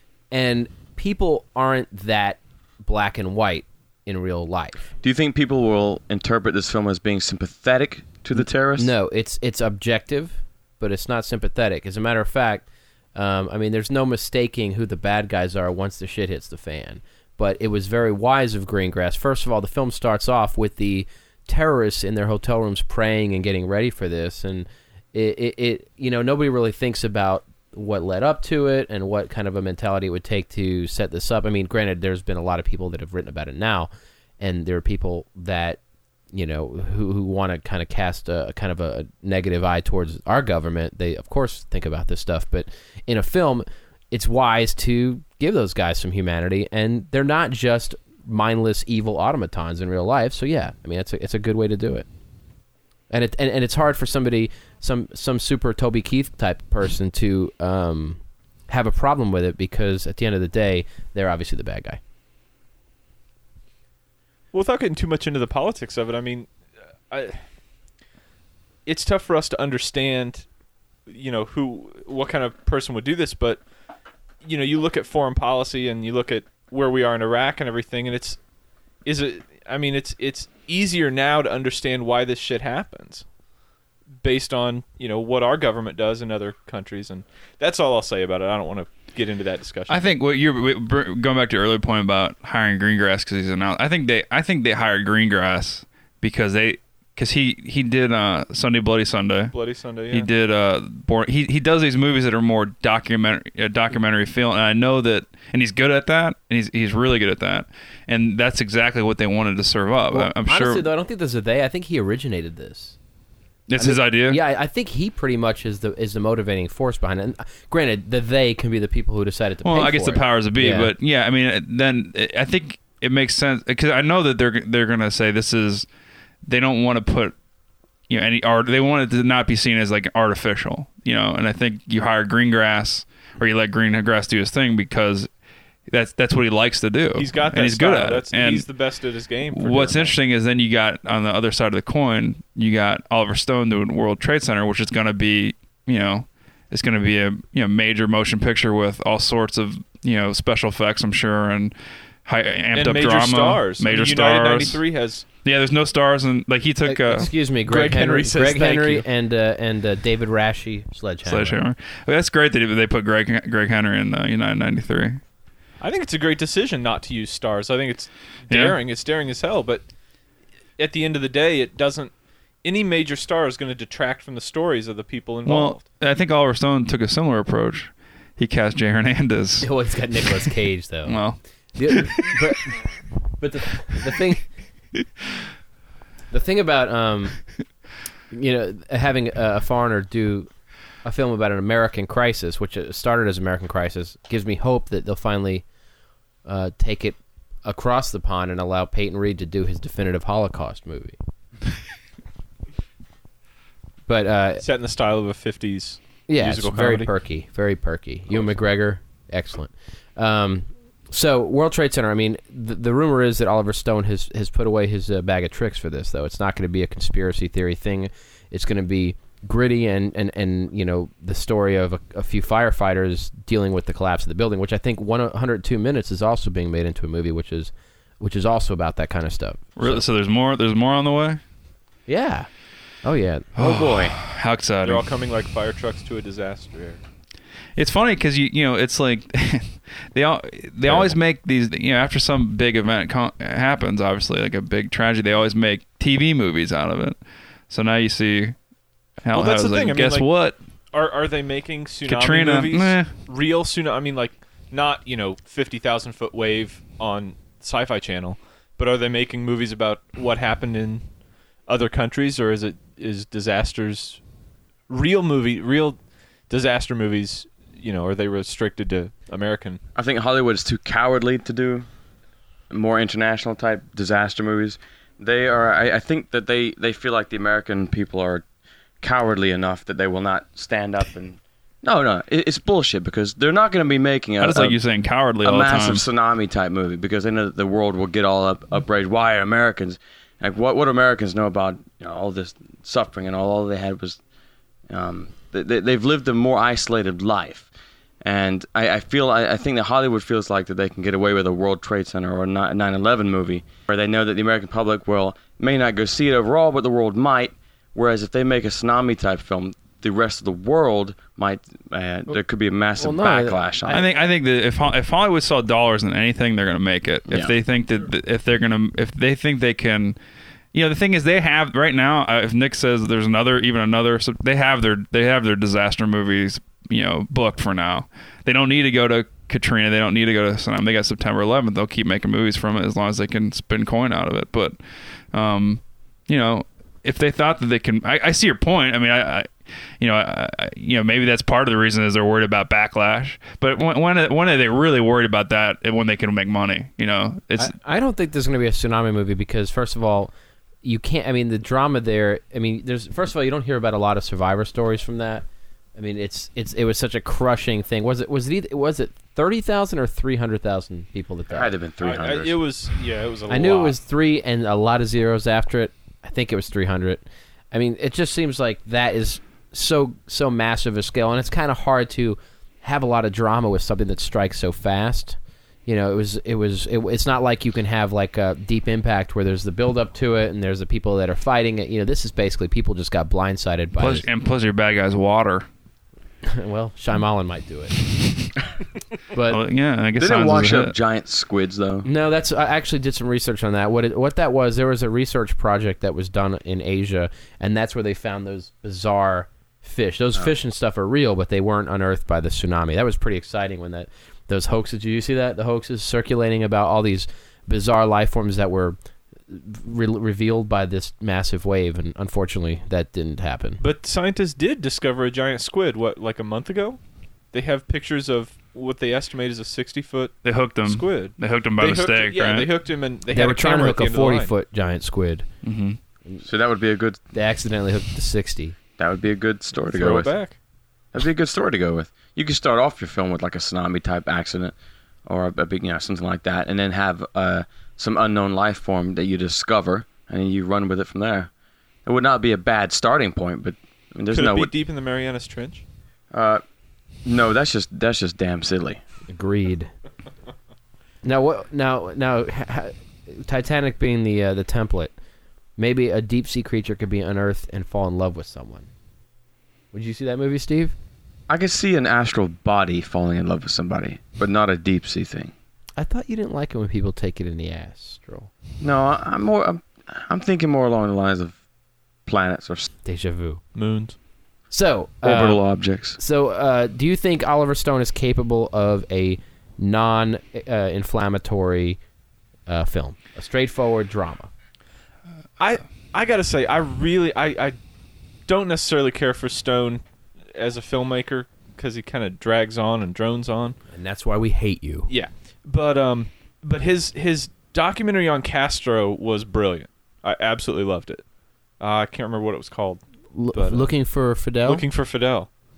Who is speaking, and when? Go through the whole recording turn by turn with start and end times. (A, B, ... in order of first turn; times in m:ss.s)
0:00.3-0:04.9 A
0:05.0-0:08.9 B
0:08.8-0:35.8 A
0:36.3-0:52.1 A
0:53.1-1:02.0 A
1:04.5-1:06.5 C
1:07.1-1:07.4 C
1:08.8-1:10.4 C
1:11.1-1:13.6 C
1:14.4-1:18.4 C
1:19.0-1:23.2 C
1:24.2-1:30.1 C
1:29.9-1:39.5 D
1:39.5-1:40.3 C
1:40.1-1:50.8 D
1:50.1-1:53.0 A
1:53.7-1:54.4 D
1:53.8-2:00.9 A
1:59.6-2:05.9 D
2:06.4-2:07.3 D
2:08.1-2:15.3 D
2:15.9-2:18.7 D
2:17.1-2:20.2 C
2:19.5-2:31.7 D
2:32.2-2:34.8 D
2:32.7-2:35.2 C
2:35.4-2:37.3 D
2:36.8-2:41.6 A
2:37.7-2:39.0 C
2:41.2-2:45.2 D
2:45.8-2:49.8 C
2:48.5-2:48.8 D
2:50.8-2:52.1 C
2:52.6-2:55.8 C
2:55.4-2:59.7 D
2:59.6-3:01.2 A
3:01.0-3:01.4 D
3:01.7-3:02.8 A
3:01.9-3:02.4 D
3:03.4-3:04.4 A
3:06.3-3:07.4 A
3:08.3-3:10.5 A
3:11.0-3:15.6 A
3:16.4-3:21.2 A
3:24.1-3:24.6 A
3:24.6-3:27.1 C
3:26.3-3:50.0 A
3:49.8-3:51.4 D
3:52.1-3:52.5 A
3:53.0-3:53.5 A
3:53.6-3:54.2 B
3:53.6-3:55.0 D
3:54.8-3:57.0 C
3:57.8-4:07.2 D
4:07.7-4:08.6 D
4:09.2-4:10.6 D
4:09.3-4:10.3 C
4:10.9-4:21.0 C
4:12.0-4:13.1 D
4:21.7-4:24.2 C
4:24.9-4:26.0 C
4:26.5-4:29.8 C
4:30.0-4:31.8 B
4:32.7-4:38.4 B
4:39.0-4:44.8 B
4:44.4-4:46.0 D
4:45.4-4:54.2 B
4:54.9-4:57.7 B
4:58.2-5:14.0 B
5:13.0-5:14.1 A
5:13.9-5:20.2 D
5:20.7-5:34.8 D
5:35.3-5:47.7 D
5:47.6-5:50.3 A
5:50.8-5:55.4 A
5:56.0-6:01.7 A
6:01.5-6:02.6 B
6:02.0-6:04.0 C
6:03.5-6:24.2 A
6:24.0-6:25.7 D
6:26.4-6:28.0 A
6:29.3-6:29.6 A
6:29.5-6:30.9 D
6:30.2-6:32.1 B
6:32.0-6:49.0 A
6:49.5-6:53.8 A
6:53.8-6:57.0 C
6:57.5-7:04.5 C
7:00.4-7:02.7 D
7:03.3-7:05.4 A
7:05.6-7:06.0 D
7:06.4-7:07.2 B
7:07.3-7:08.8 A
7:09.0-7:10.3 B
7:09.9-7:10.5 C
7:11.1-7:14.7 B
7:15.2-7:21.5 B
7:22.0-7:24.7 B
7:24.3-7:25.8 C
7:26.3-7:26.6 B
7:27.2-7:29.0 B
7:29.3-7:29.9 A
7:31.2-7:35.1 A
7:35.8-7:38.9 A
7:39.9-7:40.9 A
7:41.5-7:45.5 B
7:46.0-7:48.5 A
7:48.8-7:51.6 B
7:52.2-7:52.9 B
7:53.0-7:53.6 A
7:53.7-7:54.2 C
7:54.7-7:55.6 A
7:55.2-7:56.2 B
7:56.2-8:02.0 A
8:02.7-8:04.5 A
8:05.6-8:07.8 C
8:08.5-8:10.0 C
8:10.5-8:13.8 C
8:13.9-8:15.1 A
8:15.1-8:21.2 C
8:21.8-8:23.0 C
8:23.3-8:24.8 A
8:23.5-8:23.9 C
8:24.6-8:25.5 C